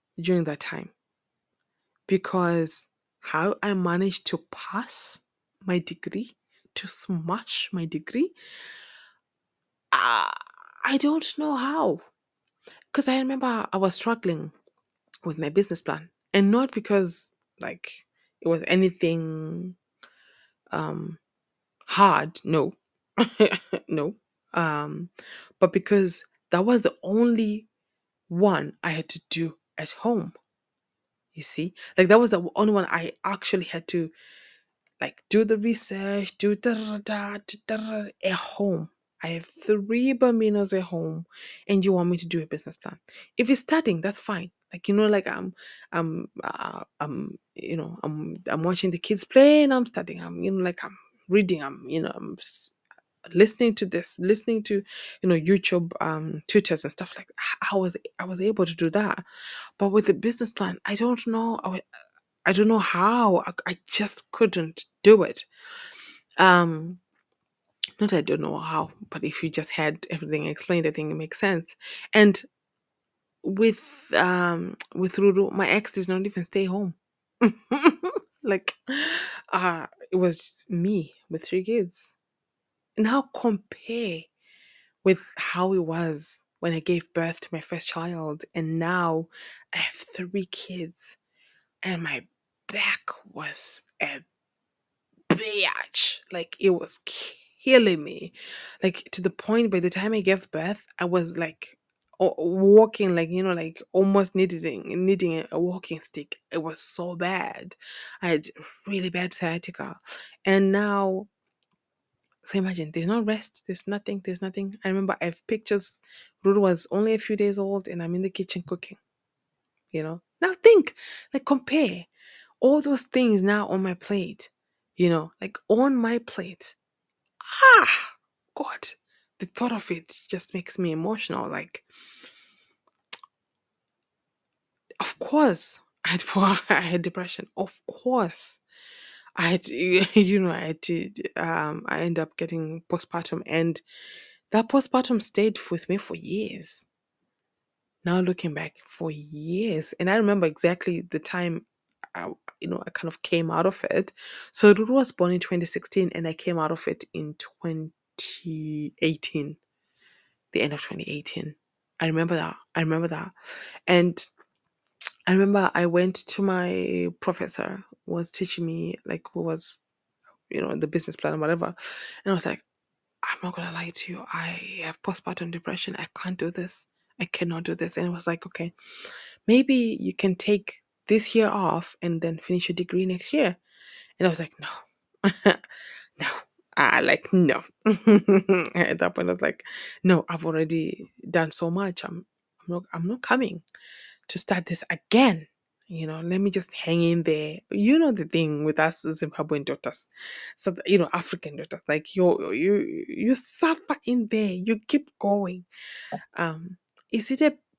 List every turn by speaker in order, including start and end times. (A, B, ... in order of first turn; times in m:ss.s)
0:00.2-0:00.9 A
0:02.1-0:08.3 A
0:09.9-0:12.0 A
0:12.9-0:14.5 A
0:15.2-0:19.8 A
0:20.7-0:21.2 A
0:21.9-0:27.7 A
0:28.3-0:30.3 A
0:31.3-0:34.1 A
0:35.0-0:52.7 A
0:53.3-0:59.2 A
0:59.8-1:01.8 A
1:02.4-1:05.5 A
1:06.4-1:07.0 A
1:08.0-1:12.4 A
1:13.4-1:22.2 A
1:23.0-1:24.3 A
1:25.0-1:31.2 A
1:31.8-1:34.2 A
1:35.3-1:51.3 A
1:52.4-1:59.0 A
1:59.9-2:02.1 A
2:02.6-2:06.8 A
2:07.5-2:11.8 A
2:15.0-2:18.6 A
2:19.4-2:23.8 A
2:24.5-2:26.9 A
2:28.0-2:39.6 A
2:40.5-2:43.3 A
2:43.9-2:44.2 A
2:45.3-2:49.8 A
2:50.5-2:52.6 A
2:53.2-2:58.7 A
2:59.5-3:03.6 A
3:04.2-3:05.6 A
3:06.2-3:13.6 A
3:14.3-3:25.6 A
3:26.4-3:27.6 A